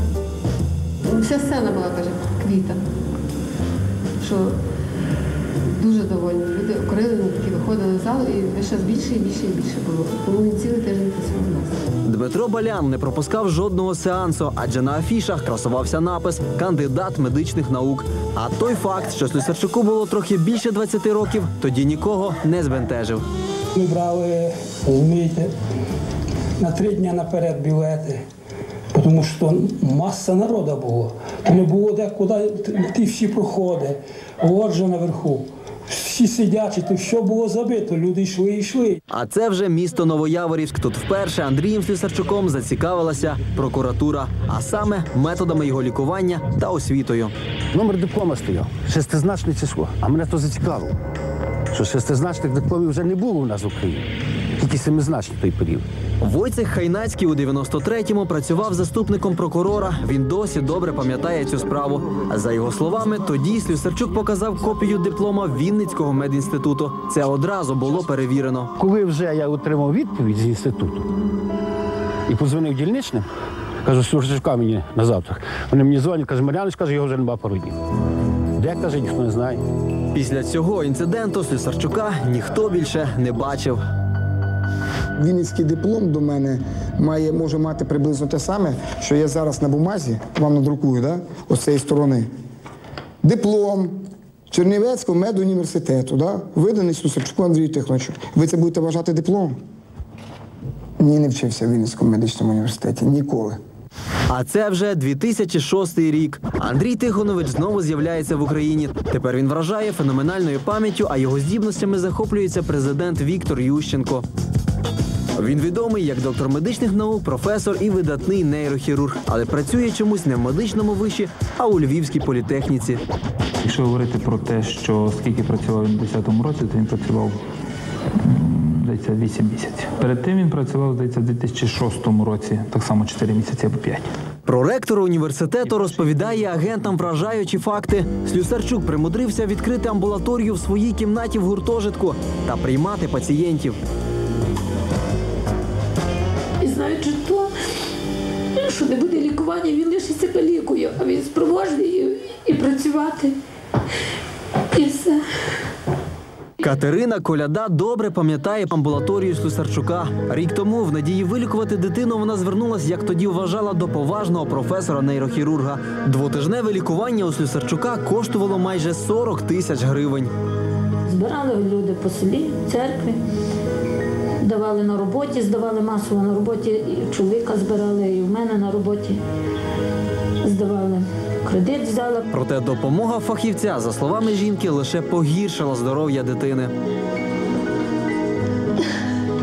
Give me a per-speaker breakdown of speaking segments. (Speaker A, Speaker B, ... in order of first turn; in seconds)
Speaker A: 1.1-2.9, 4.2-4.6, 5.7-11.8
Speaker B: 12.1-23.2, 39.1-47.3, 56.2-68.7, 80.1-83.8, 104.3-114.2, 115.3-123.0, 134.5-143.8, 156.6-170.3, 182.3-186.7
Speaker C: 23.8-25.5, 26.6-28.2, 28.9-39.0
Speaker D: 47.7-51.0, 51.7-54.0, 54.6-55.9, 68.8-71.1, 72.3-73.3, 73.8-77.8, 78.6-79.6
Speaker E: 85.2-92.3, 93.2-94.0, 94.5-99.5, 101.0-103.6
Speaker F: 123.6-127.4, 128.3-134.1
Speaker G: 146.6-147.5, 148.6-153.4, 154.7-155.2, 171.1-173.2, 174.4-179.2, 180.4-182.3